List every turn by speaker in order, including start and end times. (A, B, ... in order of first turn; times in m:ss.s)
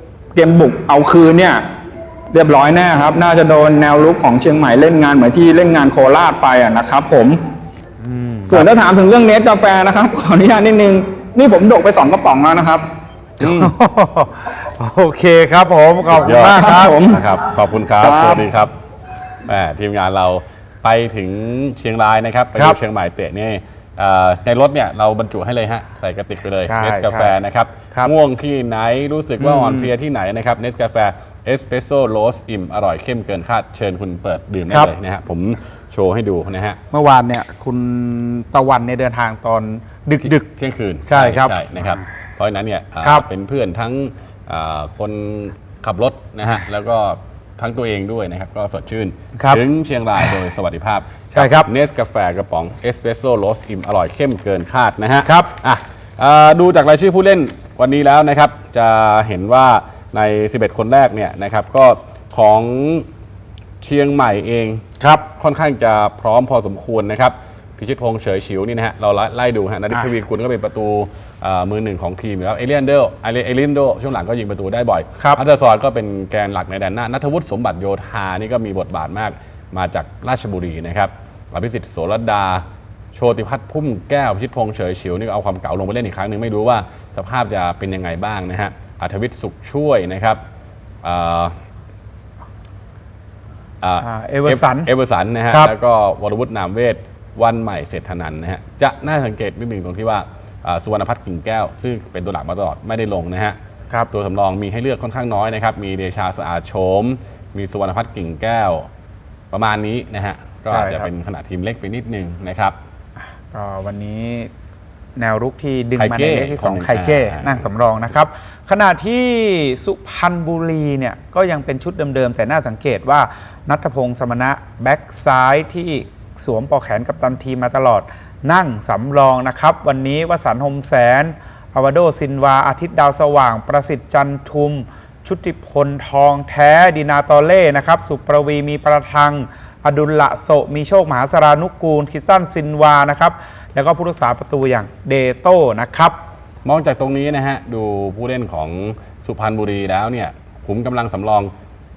0:00.4-0:01.6 A
0:02.3-0:07.4 A
0:08.0-0:08.7 B
0:08.5-0:12.8 A
0:13.4-0:13.7 C
0:13.4-0:17.0 B
0:16.1-0:18.7 C
0:16.6-0:17.2 A
0:18.0-0:18.4 A
0:19.5-0:36.8 C
0:26.6-0:27.4 B
0:29.4-0:29.9 B
0:36.9-0:40.4 B
0:40.2-1:03.1 C
0:41.1-0:41.6 B
0:49.4-0:49.6 B
0:51.3-0:51.7 B
0:55.2-0:55.5 B
1:03.8-1:04.8 C
1:05.0-1:05.2 B
1:05.4-1:22.6 C
1:23.2-1:30.4 C
1:31.0-1:31.6 C
1:33.8-1:43.6 C
1:34.0-1:34.9 B
1:35.5-1:35.7 B
1:44.1-1:48.9 C
1:49.5-1:52.8 C
1:50.7-1:51.1 B
1:53.5-1:54.5 B
1:55.2-2:26.2 B
1:56.0-1:57.7 C
2:26.6-2:31.5 C